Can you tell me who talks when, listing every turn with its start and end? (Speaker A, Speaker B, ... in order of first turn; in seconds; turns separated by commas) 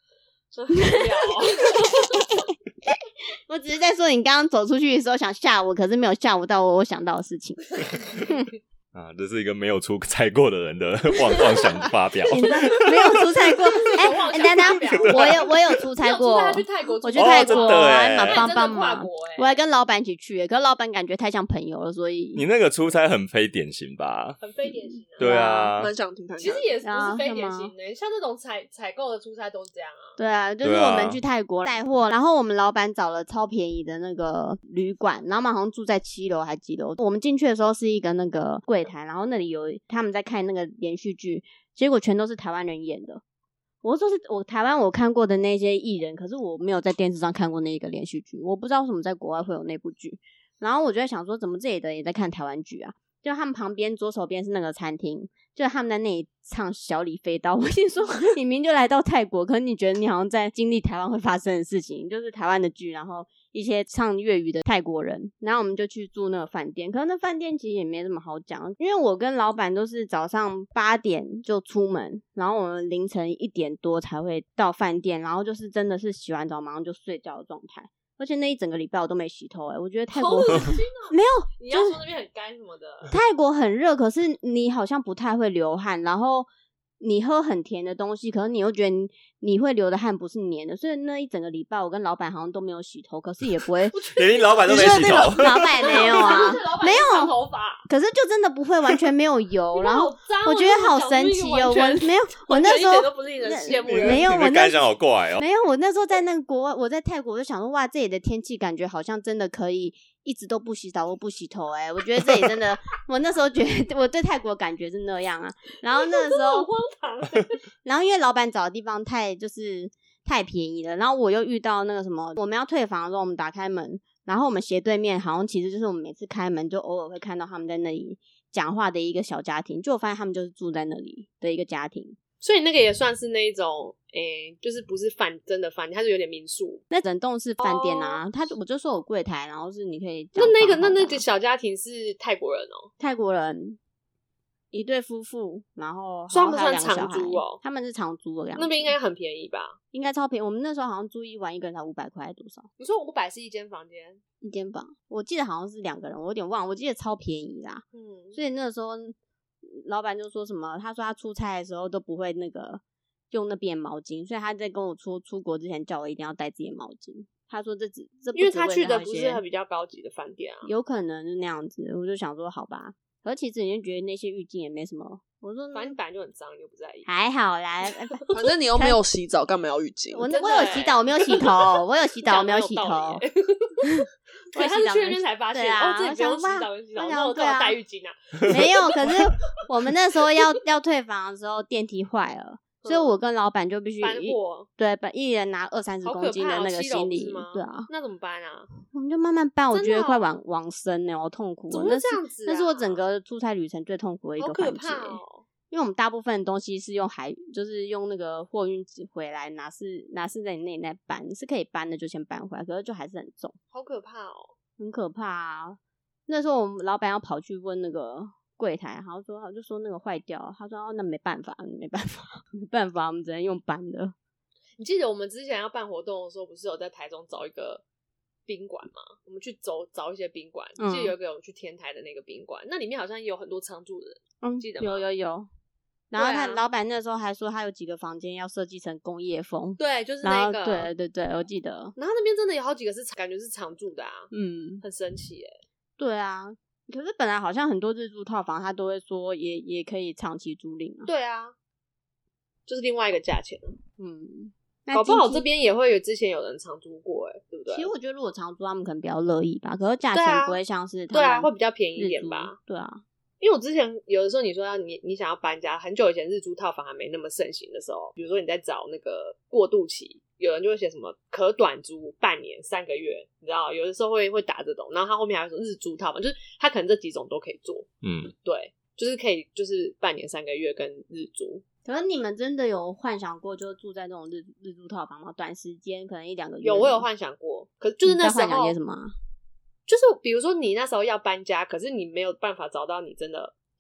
Speaker A: 0.5-2.4, Speaker B: 0.7-1.0, Speaker B: 1.7-2.2, Speaker B: 3.5-8.5, Speaker C: 8.9-13.3, Speaker A: 11.4-11.9, Speaker B: 12.3-22.4, Speaker A: 13.8-19.5, Speaker C: 17.1-18.5, Speaker C: 22.4-24.4, Speaker A: 24.4-25.3, Speaker B: 24.7-25.7, Speaker C: 25.2-25.9, Speaker D: 25.8-26.7, Speaker A: 26.4-30.2, Speaker B: 26.8-27.7, Speaker B: 30.2-43.2, Speaker C: 30.6-31.2, Speaker B: 43.8-82.0, Speaker A: 80.1-83.1, Speaker B: 83.1-86.5, Speaker B: 87.0-94.0, Speaker A: 93.9-97.9, Speaker C: 94.1-96.5, Speaker B: 94.6-97.3, Speaker B: 97.9-104.8, Speaker A: 99.7-104.3, Speaker C: 103.9-105.4, Speaker B: 105.4-116.7, Speaker A: 115.9-117.6, Speaker B: 117.8-132.2, Speaker A: 132.4-136.8, Speaker B: 136.9-141.2, Speaker A: 137.6-138.2, Speaker A: 140.4-142.9, Speaker B: 143.0-143.8, Speaker B: 144.7-148.9, Speaker A: 146.3-147.6, Speaker A: 148.6-149.8, Speaker B: 149.9-152.7, Speaker A: 152.8-154.2, Speaker B: 154.4-169.4, Speaker A: 157.9-158.4, Speaker A: 168.3-170.7, Speaker B: 170.6-175.9, Speaker A: 175.7-177.1, Speaker B: 177.1-178.2, Speaker D: 178.3-180.3, Speaker B: 180.1-183.2, Speaker A: 180.3-181.7, Speaker A: 182.2-189.2, Speaker B: 183.9-187.8, Speaker B: 188.5-197.9, Speaker A: 192.8-193.2, Speaker A: 194.0-194.7, Speaker A: 196.0-198.7, Speaker B: 198.9-213.6, Speaker A: 199.7-200.2, Speaker A: 201.7-203.0, Speaker A: 204.4-205.4, Speaker A: 213.7-214.5, Speaker B: 214.8-224.1, Speaker A: 224.8-227.8, Speaker A: 228.4-235.1, Speaker B: 230.8-231.1, Speaker B: 234.4-235.5, Speaker B: 236.1-241.9, Speaker A: 236.1-236.6, Speaker A: 239.8-240.9, Speaker A: 242.0-245.6, Speaker B: 244.3-244.8, Speaker B: 246.0-251.1, Speaker A: 251.1-251.6, Speaker A: 252.7-253.8, Speaker B: 254.0-255.4, Speaker A: 254.9-257.9, Speaker B: 257.7-263.0, Speaker A: 260.1-260.6, Speaker A: 261.1-262.6, Speaker A: 263.4-277.9, Speaker C: 278.0-278.3, Speaker A: 278.4-281.6, Speaker B: 281.9-287.1, Speaker A: 286.6-288.8, Speaker B: 288.1-289.1, Speaker A: 289.9-293.5